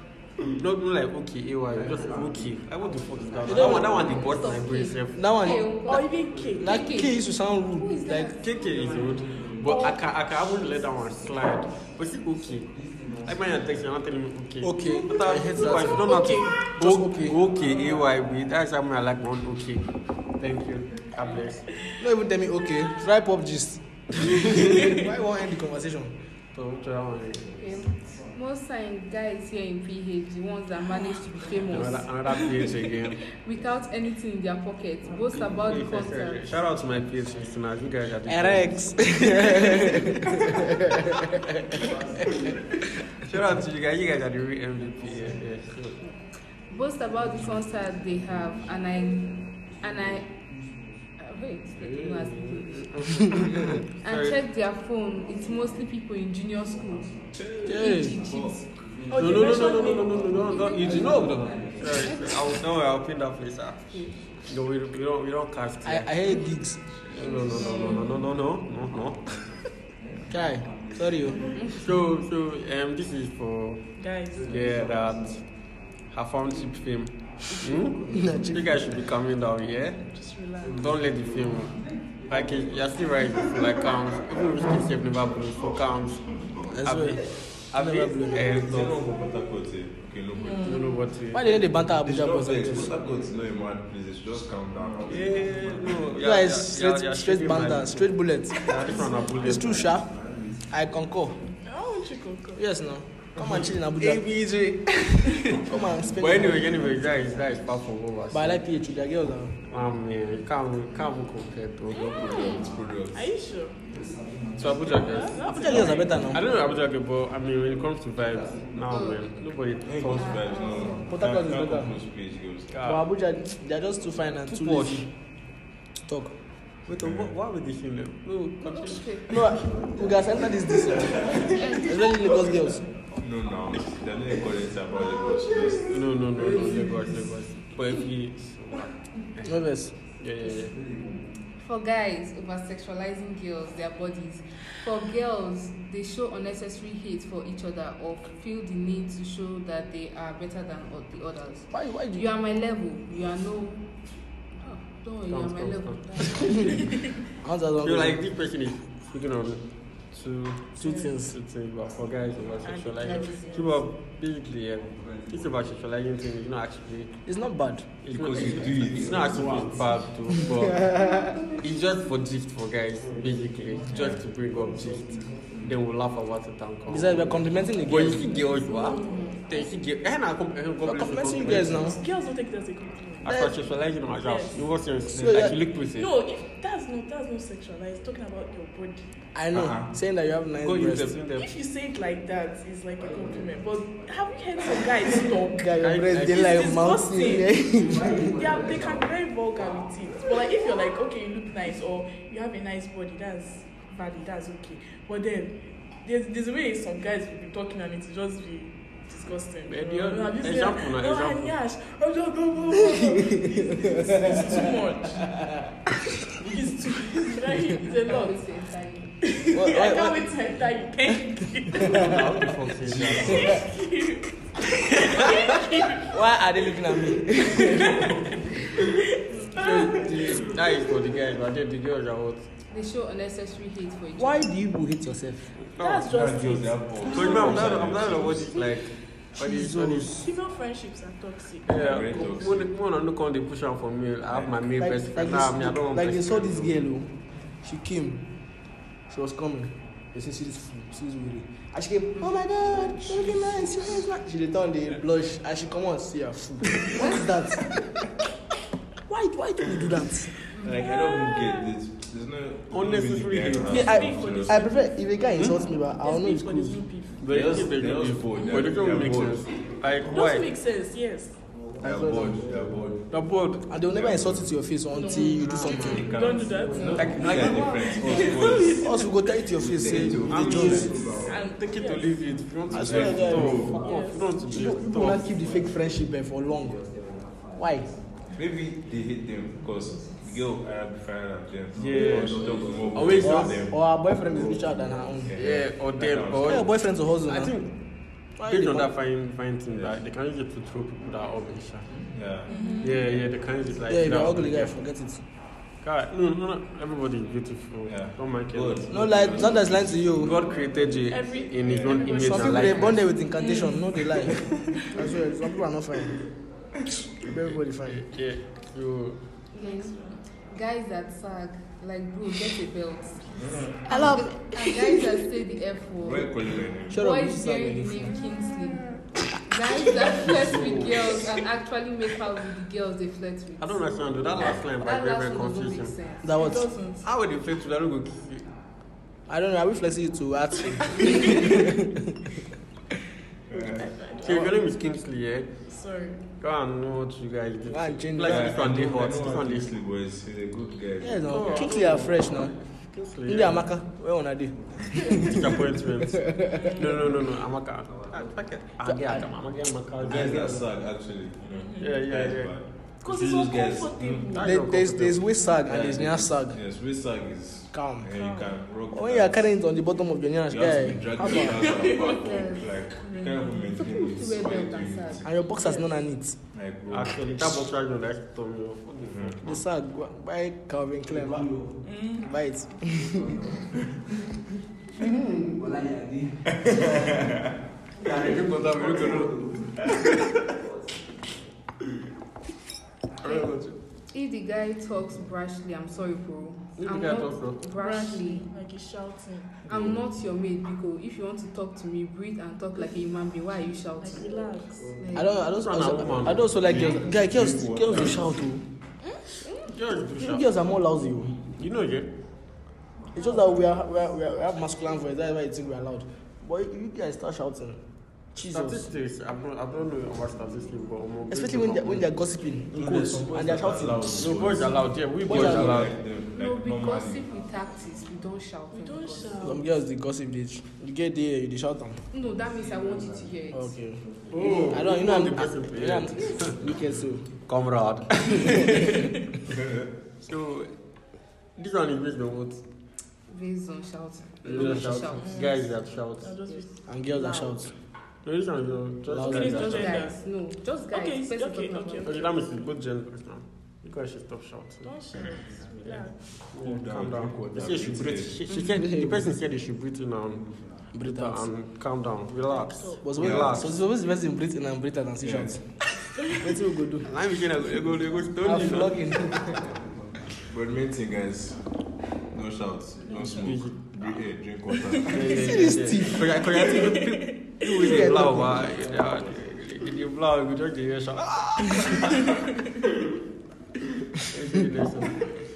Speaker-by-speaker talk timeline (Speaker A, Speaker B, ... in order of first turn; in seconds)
Speaker A: 0.4-5.2, 8.4-21.7, 26.5-27.6, 31.7-33.2, 35.5-39.7, 43.1-46.0, 51.8-54.4, 59.1-66.2, 67.1-69.4, 71.7-73.9, 74.4-75.4, 76.1-80.0, 80.7-86.3, 86.8-89.1, 90.6-91.7, 95.0-99.9, 103.4-104.4, 106.1-108.7, 109.7-112.1, 114.6-120.6, 122.7-123.0, 124.5-125.1, 126.8-129.6, 135.9-140.8, 155.3-156.8, 157.8-167.2, 168.0-170.9, 171.6-182.0, 183.2-186.1, 190.6-191.5, 195.8-196.5, 209.7-211.5, 221.8-223.6, 230.3-232.5, 235.7-236.1, 237.1-240.1, 241.7-246.7, 262.7-264.1, 267.2-270.5, 273.1-273.6, 275.2-276.2, 276.9-278.3, 279.8-285.3, 291.7-293.7, 295.3-296.7, 297.3-297.7, 298.4-301.9, 302.8-304.7, 305.8-309.5, 310.1-313.1, 317.8-319.2, 333.6-335.9, 337.0-338.5, 344.2-345.5, 346.4-349.7, 351.3-353.6, 354.9-360.6, 361.8-363.5, 364.3-365.2, 376.9-379.6, 388.0-389.5, 393.2-393.8, 396.8-397.6, 405.4-406.5, 409.7-410.5, 411.6-412.1, 418.4-422.1, 424.2-425.9, 434.3-436.6, 437.4-439.1, 440.2-440.7, 441.6-442.6, 444.4-446.3, 448.2-450.0, 452.0-454.9, 455.8-460.4, 461.0-463.8, 467.0-469.0, 473.2-473.8, 475.1-482.3, 484.2-485.3
Speaker B: 3.5-4.0, 5.1-5.7, 6.6-8.3, 14.6-17.4, 22.0-26.1, 38.2-41.8, 57.6-58.5, 65.8-66.8, 70.3-71.4, 78.1-78.7, 86.7-88.6, 91.3-93.0, 96.2-98.7, 99.3-100.1, 100.7-101.4, 102.5-106.8, 108.3-109.5, 115.4-116.4, 121.0-121.9, 122.8-125.0, 126.0-126.3, 129.3-132.8, 139.4-139.9, 151.7-152.2, 157.4-158.2, 160.8-161.3, 167.2-167.9, 170.6-171.3, 176.9-178.3, 180.8-182.0, 185.1-185.6, 189.3-191.2, 195.6-198.4, 214.1-214.4, 219.5-220.3, 221.8-222.1, 226.0-228.2, 229.5-230.6, 234.2-235.5, 239.4-240.3, 244.8-247.1, 247.6-248.2, 249.1-257.7, 259.1-260.3, 263.7-266.8, 271.8-272.4, 273.7-276.0, 278.3-281.1, 282.7-284.0, 284.5-286.8, 287.6-287.9, 293.2-295.3, 296.4-297.6, 298.4-298.9, 303.9-305.2, 308.9-310.3, 312.1-316.2, 317.2-318.0, 323.9-325.0, 326.9-328.1, 336.2-336.6, 339.3-342.4, 347.7-348.5, 351.0-352.5, 353.3-355.6, 356.2-356.7, 358.8-359.2, 364.4-366.6, 367.7-368.1, 368.9-371.7, 375.2-376.4, 379.4-381.6, 382.2-383.4, 405.1-408.6, 410.2-411.3, 413.1-417.8, 418.3-418.9, 421.3-424.6, 425.2-425.9, 429.4-432.0, 433.5-437.2, 438.4-438.9, 446.9-447.7, 449.1-449.7, 458.7-459.3, 460.9-461.5, 463.0-465.6, 466.3-467.1, 468.4-469.6, 475.2-476.6, 477.8-478.8
Speaker C: 3.5-8.8, 27.6-32.1, 33.4-36.5, 46.7-50.4, 51.2-52.7, 54.0-57.1, 57.7-58.5, 60.4-62.4, 63.9-64.3, 67.2-68.1, 112.2-112.7, 118.9-119.2, 120.2-121.0, 128.6-129.3, 131.5-132.3, 141.6-154.0, 154.5-156.6, 163.0-163.6, 178.6-179.8, 217.8-219.2, 232.7-234.5, 260.5-260.9, 276.7-278.3, 302.5-302.8, 312.6-313.8, 319.5-326.3, 326.9-328.9, 329.4-336.3, 372.1-373.2, 373.7-376.0, 393.2-393.5, 394.1-398.5, 399.6-405.4, 426.3-429.5, 432.1-433.8, 443.3-445.5, 449.7-452.2
Speaker D: 5.9-6.9, 9.6-10.0, 14.9-16.7, 24.6-24.9, 59.1-60.3, 67.6-67.9, 74.0-74.5, 80.1-80.9, 90.3-91.0, 101.5-102.6, 112.0-113.8, 115.0-116.1, 160.8-161.1, 162.6-163.8, 178.7-179.3, 181.7-183.4, 184.2-184.6, 185.9-189.1, 191.3-197.5, 198.2-215.4, 216.3-218.4, 219.2-222.2, 223.4-224.3, 225.0-226.2, 227.4-230.2, 235.8-237.9, 240.2-241.8, 260.8-261.7, 263.7-265.0, 265.8-267.2, 270.1-271.4, 274.9-279.1, 281.2-282.2, 283.7-284.4, 302.4-303.1, 311.1-314.9, 319.6-320.2, 336.3-337.1, 343.5-344.6, 345.7-346.2, 356.6-356.9, 361.6-361.9, 363.0-364.6, 368.1-368.6, 371.2-372.3, 373.0-373.7, 381.8-382.3, 397.7-399.6, 404.0-405.0, 409.0-409.5, 428.7-429.6, 445.2-445.6, 446.2-447.5, 449.2-450.2, 450.9-452.3, 454.8-456.2, 462.5-463.1, 466.2-466.4, 476.5-477.9, 482.2-482.6
Speaker E: 57.4-58.5, 88.5-90.8, 91.9-95.5, 100.0-100.6, 111.9-113.3, 115.7-116.0, 119.8-122.7, 126.9-127.3, 133.2-136.8, 168.1-169.9, 173.9-174.2, 189.5-189.9, 222.8-223.7, 230.2-230.5, 236.1-238.6, 241.7-242.7, 244.2-244.6, 260.6-264.6, 267.3-269.5, 271.8-273.1, 273.9-274.5, 275.6-278.9, 279.5-281.3, 282.7-283.8, 288.3-296.6, 302.1-302.5, 307.9-310.3, 311.6-312.1, 323.3-323.8, 326.0-327.0, 330.4-330.8, 343.5-343.9, 348.2-351.6, 360.0-362.6, 363.1-364.3, 365.7-369.5, 370.5-375.3, 376.5-377.5, 379.1-379.4, 386.5-387.5, 399.7-399.9, 406.6-408.4, 422.7-427.2, 439.5-439.8, 456.6-458.4, 463.2-463.6, 465.2-465.6, 470.5-471.6, 472.3-475.6